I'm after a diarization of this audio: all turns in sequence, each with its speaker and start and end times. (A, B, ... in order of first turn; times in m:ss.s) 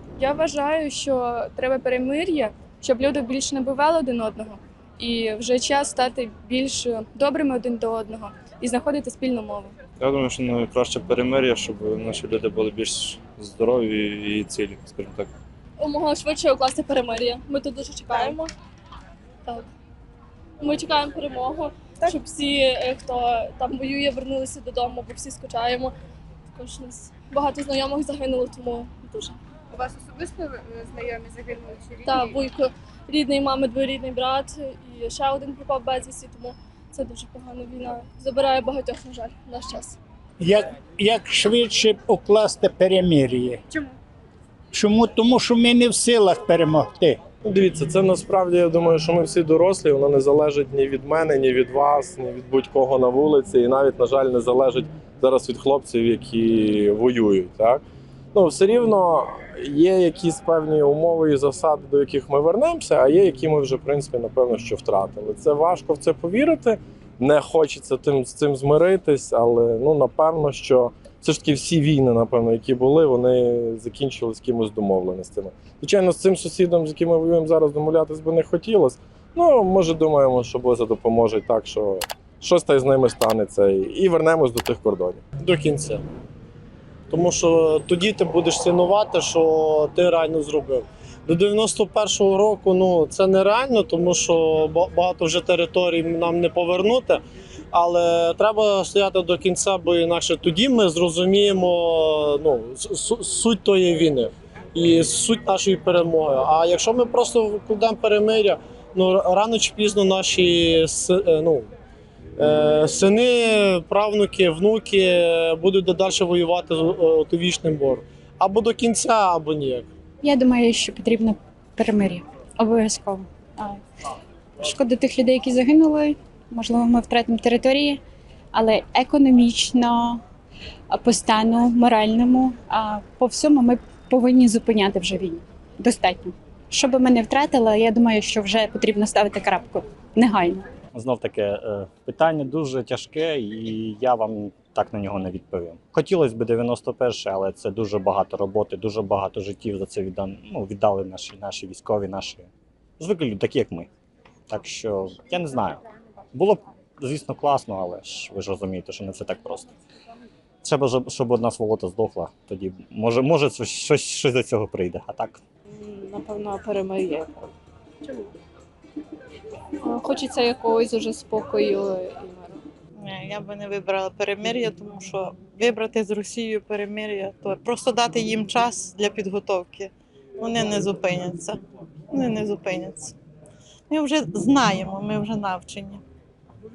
0:00.2-0:09.8 A
0:10.0-0:15.3 B
0:15.8-0:18.5 C
0:20.6-0:25.9 C
0:26.6-0:29.4 C
0:29.7-0:32.0 D
0:32.0-0:40.0 C
0:40.4-0:43.6 E
0:44.7-0:47.2 E
0:47.4-0:57.8 F
0:58.3-1:25.2 F
1:25.4-1:26.0 G
1:27.1-1:37.2 G
1:37.7-1:51.7 G
1:52.4-1:59.9 G
2:00.2-2:03.8 H
2:04.6-2:08.0 H
2:08.5-2:10.2 H
2:10.9-2:20.7 H
2:21.0-2:32.5 I
2:33.0-2:33.9 I
2:34.5-2:35.8 I
2:36.3-2:39.7 I
2:40.6-2:45.4 I
2:45.7-2:47.4 J
2:49.8-2:52.6 J
2:53.0-3:03.1 K
3:03.9-3:06.0 K